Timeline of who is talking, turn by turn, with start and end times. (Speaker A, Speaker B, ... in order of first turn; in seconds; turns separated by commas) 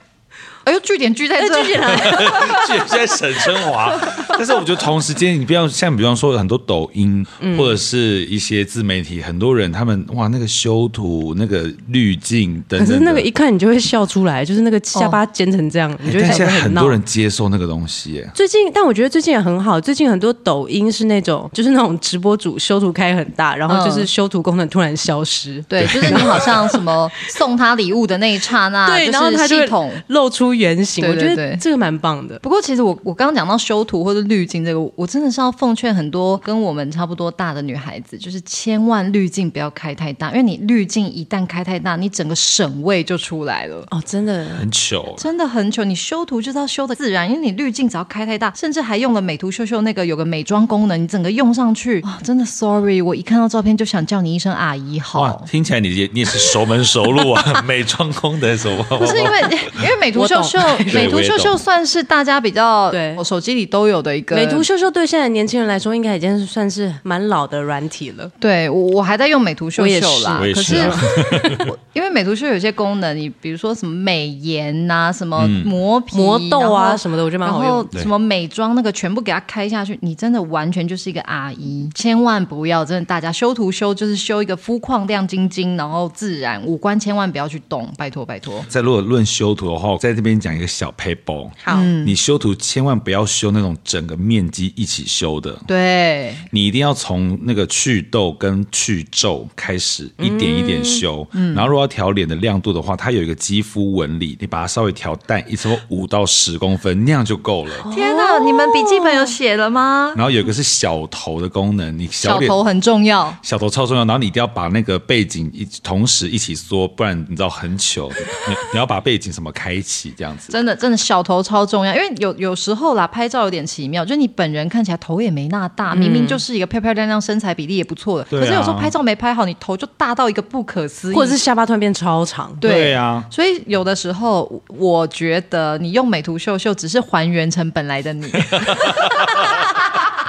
Speaker A: 0.6-2.3, Speaker B: 1.4-2.8, Speaker C: 1.9-13.2, Speaker B: 7.4-7.8, Speaker B: 12.8-17.0, Speaker A: 14.9-15.2, Speaker C: 16.0-18.3, Speaker B: 18.3-26.8, Speaker A: 23.7-24.1, Speaker A: 25.7-30.0, Speaker C: 25.8-26.5, Speaker B: 28.8-32.4, Speaker A: 31.0-31.6, Speaker A: 32.4-43.9, Speaker B: 43.9-44.6, Speaker C: 44.5-45.2, Speaker A: 45.2-55.5, Speaker C: 55.1-59.7, Speaker A: 59.0-64.7, Speaker B: 60.1-61.1, Speaker C: 60.9-61.6, Speaker B: 62.9-63.2, Speaker B: 64.3-68.3, Speaker A: 68.4-88.7, Speaker B: 69.8-71.6, Speaker C: 70.4-71.7, Speaker C: 75.4-75.7, Speaker B: 76.1-77.9, Speaker C: 88.7-95.7, Speaker B: 91.6-91.9, Speaker A: 91.7-92.1, Speaker A: 95.7-96.5, Speaker C: 96.5-107.8, Speaker B: 100.2-101.0, Speaker A: 101.3-101.7, Speaker B: 107.8-109.3, Speaker A: 107.9-110.2, Speaker C: 110.1-112.6, Speaker A: 112.2-113.4, Speaker C: 113.4-120.6, Speaker A: 120.5-131.4, Speaker B: 125.9-126.4, Speaker C: 128.3-128.9, Speaker B: 131.1-132.6, Speaker A: 132.6-140.1, Speaker C: 132.6-133.3, Speaker C: 138.5-139.7